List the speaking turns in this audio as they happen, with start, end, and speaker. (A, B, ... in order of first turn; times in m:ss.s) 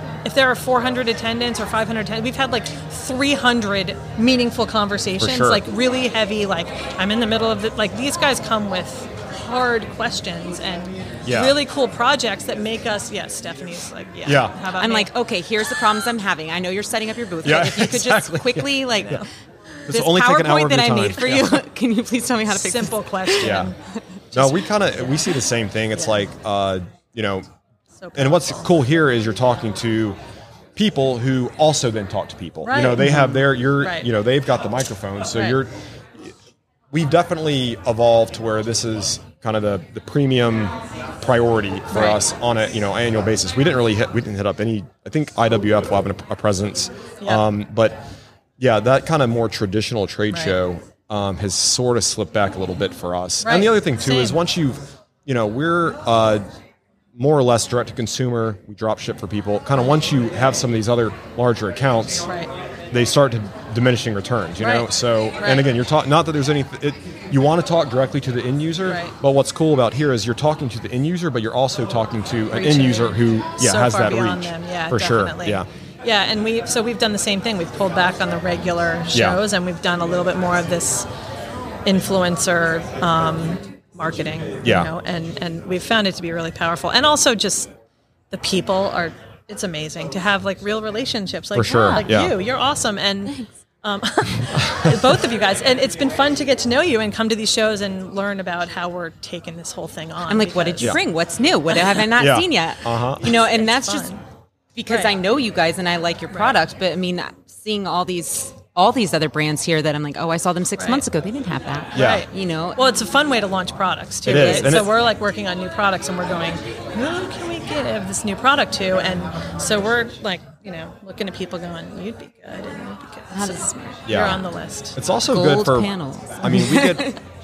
0:00.2-0:15.1 A
0:05.2-0:05.6 B
0:11.3-0:11.6 B
0:14.2-0:14.6 B
0:14.8-0:19.3 C
0:17.4-0:19.2 B
0:19.9-0:21.6 B
0:19.9-0:23.6 C
0:22.5-0:23.8 A
0:23.4-0:23.7 B
0:24.3-0:24.6 A
0:24.3-0:27.5 B
0:28.0-0:28.7 A
0:28.2-0:30.2 B
0:30.8-0:36.3 B
0:32.6-0:34.1 A
0:35.3-0:35.6 A
0:36.9-0:48.0 B
0:41.9-0:42.2 A
0:48.6-0:56.4 B
0:50.3-0:50.6 A
0:53.4-0:54.4 A
0:57.2-1:02.3 B
1:02.9-1:15.7 B
1:04.6-1:05.7 A
1:08.8-1:09.1 A
1:12.5-1:21.1 A
1:19.1-1:19.4 B
1:21.9-1:27.7 A
1:24.6-1:24.9 B
1:28.3-1:41.0 A
1:31.6-1:32.4 B
1:31.7-1:32.0 C
1:34.5-1:35.1 B
1:40.3-1:44.1 C
1:42.2-1:43.3 B
1:43.3-1:44.2 A
1:44.8-1:52.8 C
1:52.0-1:52.3 B
1:52.0-2:05.0 A
1:54.3-1:54.9 B
1:54.3-1:54.8 C
2:03.3-2:04.4 C
2:04.1-2:07.1 B
2:05.3-2:07.2 C